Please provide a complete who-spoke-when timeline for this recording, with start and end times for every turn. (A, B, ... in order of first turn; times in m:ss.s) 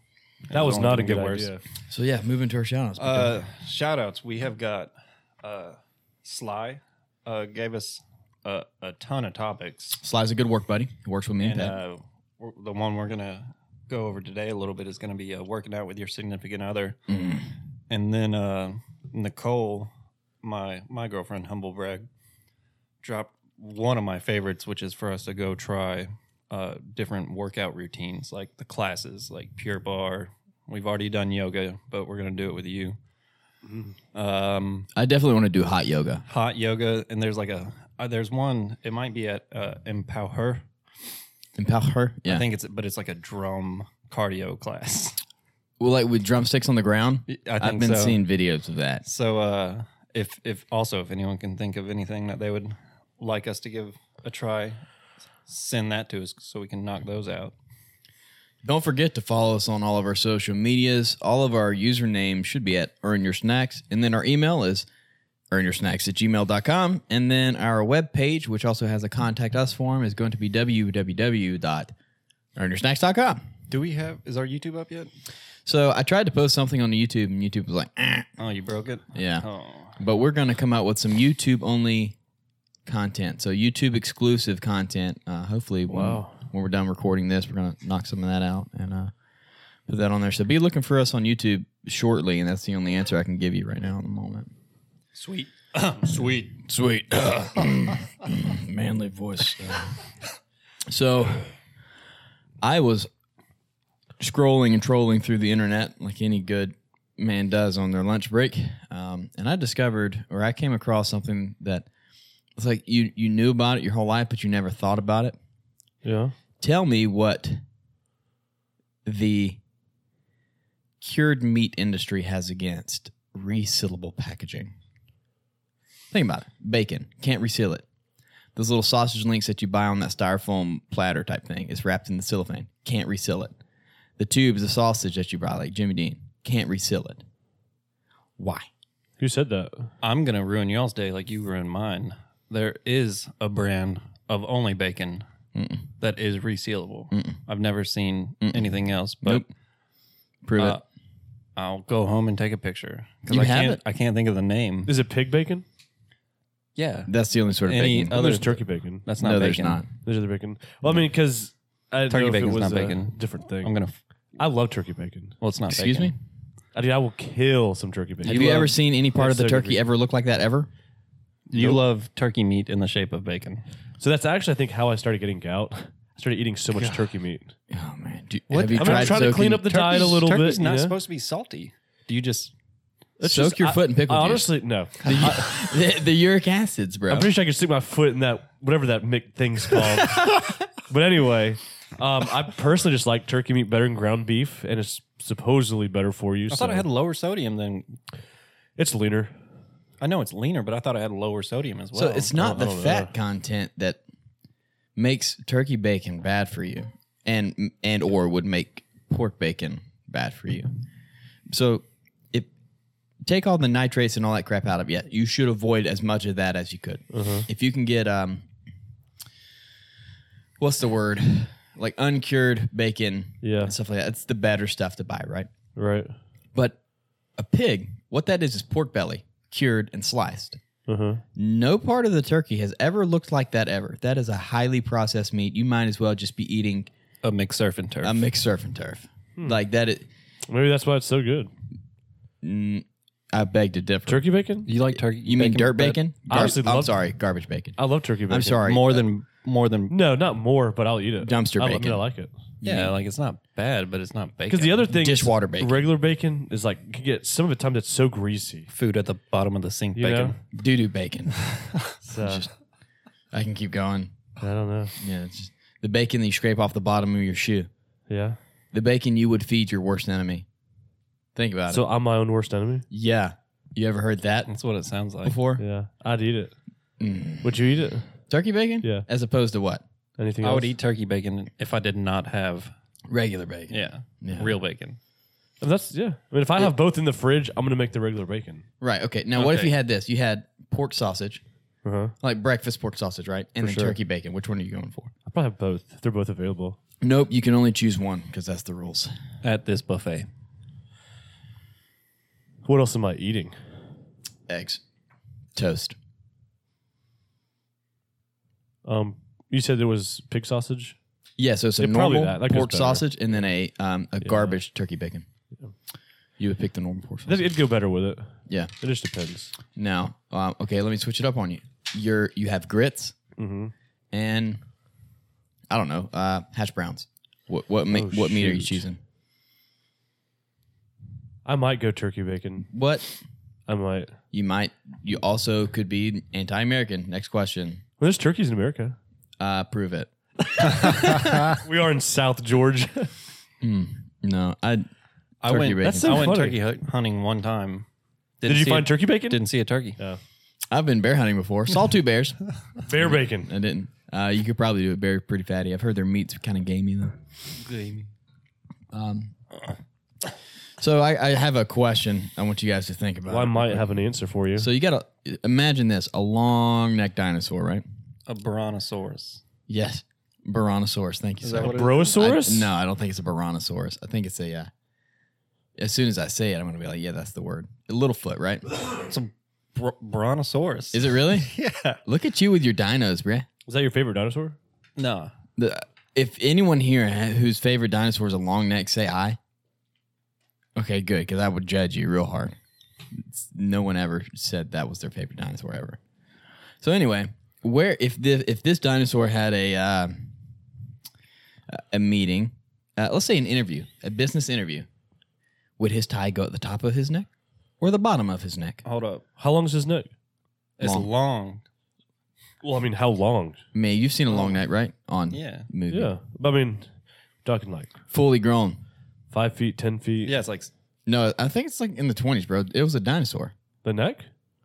0:00.5-0:01.5 A
0:00.5-0:01.6 B
0:01.9-0:03.3 C
0:03.0-0:10.0 A
0:10.0-0:11.8 C
0:11.4-0:17.0 A
0:17.1-0:17.5 C
0:17.9-0:19.9 A
0:20.4-0:22.1 A
0:23.0-0:33.0 A
0:33.6-0:33.9 B
0:34.1-0:34.9 A
0:34.9-0:36.2 C
0:36.3-0:40.6 A
0:41.6-0:42.4 C
0:42.3-0:45.2 A
0:45.8-0:49.0 C
0:47.3-0:48.2 A
0:49.0-0:54.8 A
0:55.4-0:57.5 A
0:58.6-1:04.9 C
1:05.5-1:11.9 C
1:12.6-1:13.4 C
1:13.7-1:15.1 A
1:15.6-1:18.3 C
1:18.4-1:20.0 A
1:19.1-1:22.2 C
1:22.8-1:29.1 C
1:25.9-1:26.4 B
1:29.9-1:34.5 C
1:35.1-1:36.6 A
1:36.6-1:40.0 C
1:40.9-1:41.5 C
1:42.6-1:43.1 C
1:44.2-1:51.9 C
1:52.6-1:55.4 C
1:56.0-1:56.3 B
1:56.6-1:57.6 C
1:59.0-1:59.6 C
2:01.0-2:04.7 C
2:06.1-2:07.8 C
2:08.6-2:13.6 C
2:14.2-2:17.2 C
2:18.4-2:18.7 C
2:19.2-2:19.9 B
2:20.0-2:25.2 A
2:25.5-2:25.9 C
2:26.0-2:29.4 A
2:27.1-2:27.4 C
2:28.4-2:28.7 C
2:29.2-2:29.5 C
2:30.4-2:30.8 C
2:30.6-2:30.8 A
2:31.6-2:34.9 A
2:33.3-2:33.8 C
2:34.8-2:35.6 B
2:36.8-2:37.1 A
2:37.1-2:38.5 C
2:37.6-2:39.8 A
2:38.1-2:39.0 B
2:39.2-2:39.9 C
2:40.0-2:43.7 B
2:42.1-2:44.0 A
2:44.4-2:45.4 B
2:45.4-2:46.1 A
2:45.7-2:46.1 C
2:46.7-2:49.8 B
2:48.2-2:50.7 C
2:48.2-2:48.7 A
2:51.5-2:53.6 A
2:51.5-2:51.8 B
2:54.0-2:57.5 B
2:56.8-2:57.0 A
2:57.7-2:59.7 C
2:58.5-3:02.5 A
2:58.7-3:01.0 B
3:03.2-3:05.8 B
3:03.2-3:07.3 C
3:07.1-3:16.8 B
3:16.5-3:18.0 A
3:18.8-3:19.3 B
3:20.0-3:22.4 A
3:21.9-3:24.0 C
3:22.4-3:23.1 B
3:25.0-3:30.7 C
3:31.5-3:32.5 C
3:33.2-3:38.4 C
3:37.1-3:37.5 B
3:40.6-3:45.5 C
3:43.4-3:43.7 B
3:45.8-3:46.1 B
3:47.4-3:50.6 C
3:50.9-3:51.2 B
3:51.4-3:56.9 C
3:57.2-3:58.2 A
3:58.0-4:00.1 C
4:00.5-4:01.5 B
4:02.4-4:04.2 C
4:04.1-4:04.7 B
4:04.6-4:06.5 A
4:05.2-4:09.0 C
4:06.3-4:07.0 B
4:07.8-4:08.6 B
4:08.6-4:09.9 A
4:09.9-4:12.3 B
4:11.2-4:12.0 C
4:12.6-4:12.9 C
4:12.6-4:14.9 A
4:14.5-4:18.7 B
4:14.9-4:15.9 C
4:18.7-4:20.4 A
4:20.0-4:20.3 B
4:20.5-4:21.5 C
4:22.0-4:22.5 B
4:22.2-4:22.5 C
4:23.3-4:24.2 C
4:24.4-4:25.0 B
4:25.0-4:27.7 C
4:28.1-4:28.4 B
4:28.7-4:30.4 C
4:31.3-4:31.8 C
4:31.7-4:32.8 B
4:32.9-4:34.5 C
4:34.5-4:35.4 A
4:35.2-4:35.6 C
4:35.6-4:36.5 B
4:37.0-4:37.7 C
4:37.4-4:38.1 B
4:38.3-4:39.8 C
4:40.2-4:40.7 B
4:40.4-4:42.7 A
4:43.1-4:44.5 C
4:43.7-4:45.0 A
4:45.6-4:48.6 B
4:48.8-4:51.4 C
4:49.4-4:49.7 A
4:51.8-4:52.1 B
4:52.2-4:55.1 C
4:53.6-4:53.9 A
4:55.2-4:56.8 B
4:57.0-4:59.1 C
4:59.4-5:00.3 A
5:02.6-5:03.5 B
5:04.5-5:04.8 C
5:05.5-5:06.0 C
5:08.8-5:11.0 B
5:11.4-5:15.2 C
5:11.8-5:13.0 B
5:14.2-5:14.6 B
5:16.4-5:17.4 C
5:17.3-5:19.5 B
5:19.7-5:23.2 C
5:23.4-5:23.7 B
5:24.1-5:24.6 C
5:25.7-5:29.0 C
5:27.9-5:28.8 B
5:31.4-5:32.7 B
5:32.7-5:33.1 C
5:33.7-5:34.1 B
5:34.3-5:37.8 C
5:38.0-5:39.0 B
5:39.4-5:41.5 C
5:40.8-5:43.1 B
5:43.6-5:44.9 C
5:45.4-5:47.8 A
5:45.4-5:46.3 C
5:45.8-5:46.6 B
5:48.4-5:50.0 A
5:48.4-5:49.4 B
5:50.7-5:52.4 C
5:52.8-5:53.5 B
5:52.9-5:57.2 C
5:57.6-5:58.1 A
5:58.9-5:59.3 C
6:00.8-6:04.0 C
6:03.3-6:04.7 B
6:04.6-6:07.8 C
6:08.3-6:09.4 A
6:09.7-6:14.7 C
6:11.4-6:12.1 A
6:11.6-6:12.7 B
6:15.8-6:18.6 C
6:19.0-6:22.0 A
6:20.9-6:21.5 C
6:22.0-6:23.5 C
6:23.7-6:24.6 B
6:25.0-6:25.3 A
6:25.6-6:29.4 C
6:30.8-6:32.6 C
6:33.1-6:36.0 C
6:36.8-6:40.3 C
6:41.7-6:44.9 C
6:45.8-6:47.3 C
6:47.8-6:48.8 C
6:48.8-6:49.2 A
6:49.4-6:50.1 B
6:50.8-6:51.6 A
6:50.8-6:51.1 C
6:52.6-6:53.6 B
6:53.7-6:56.2 C
6:55.3-6:55.7 A
6:55.9-6:56.9 B
6:57.4-6:57.9 B
6:58.1-6:58.8 C
6:59.3-7:00.4 B
7:00.2-7:00.7 A
7:01.0-7:03.5 C
7:03.8-7:04.3 B